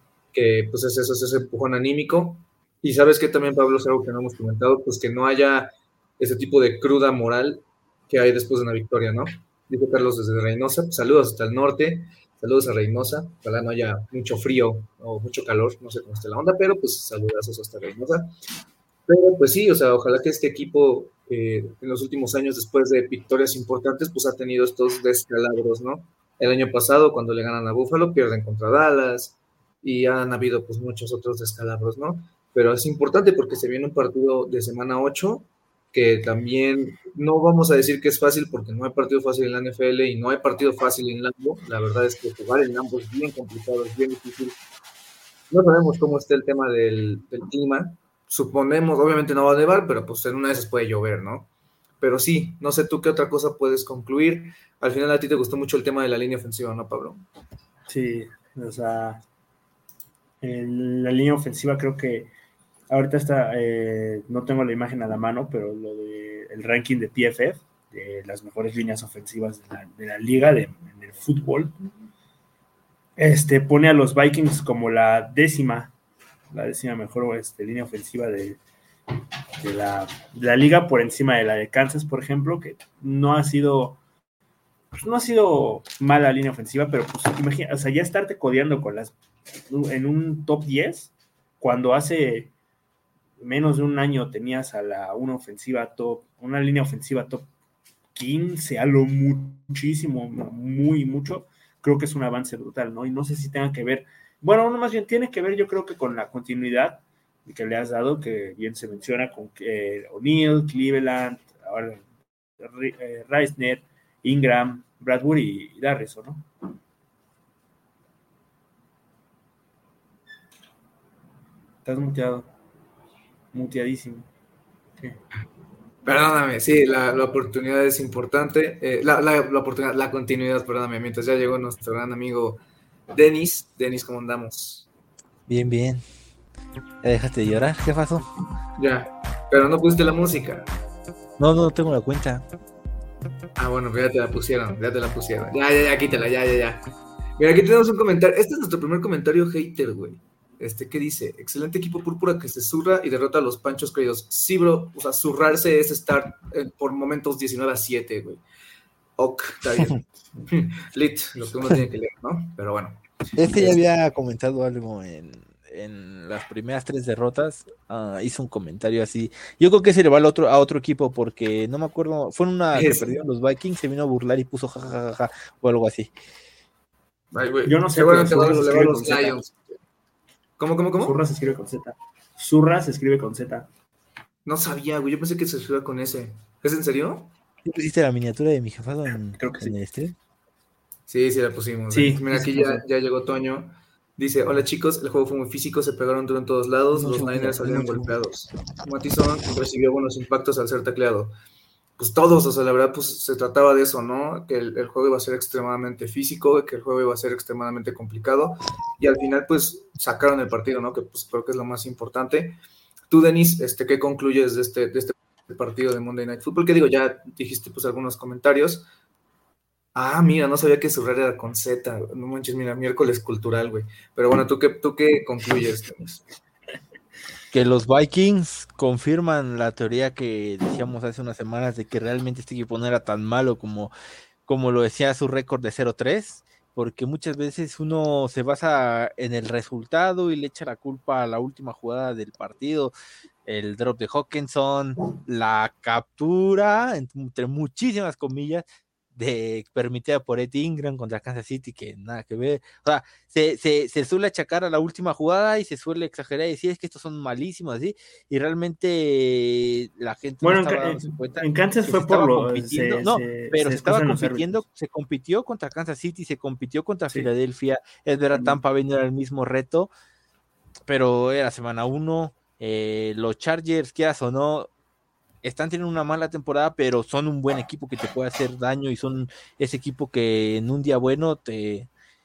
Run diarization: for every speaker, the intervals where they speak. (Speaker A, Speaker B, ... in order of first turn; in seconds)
Speaker A: 0.3-18.3, 19.1-44.6, 45.5-51.5, 52.0-57.2, 126.0-132.6, 133.1-134.9, 138.8-140.7, 143.6-146.8, 147.4-158.4, 159.2-163.8, 172.7-173.2, 177.3-179.7, 180.6-181.2, 184.4-187.3, 191.1-201.3, 202.0-212.6, 213.1-218.9, 219.9-226.2
Speaker B: 57.9-59.2, 60.4-62.3, 62.9-71.8, 73.2-75.9, 76.5-78.6, 79.6-84.0, 84.9-89.1, 89.7-92.5, 93.4-97.5, 98.1-116.5, 121.8-122.5, 123.5-124.3, 177.6-179.4, 181.0-183.7, 189.4-189.8, 191.9-192.8, 260.4-264.6
Speaker C: 135.5-136.0, 137.0-138.3, 141.4-142.4, 163.3-176.1, 187.6-190.2, 196.9-198.1, 227.5-233.9, 234.5-242.9, 243.4-269.9, 270.9-274.7, 275.4-281.9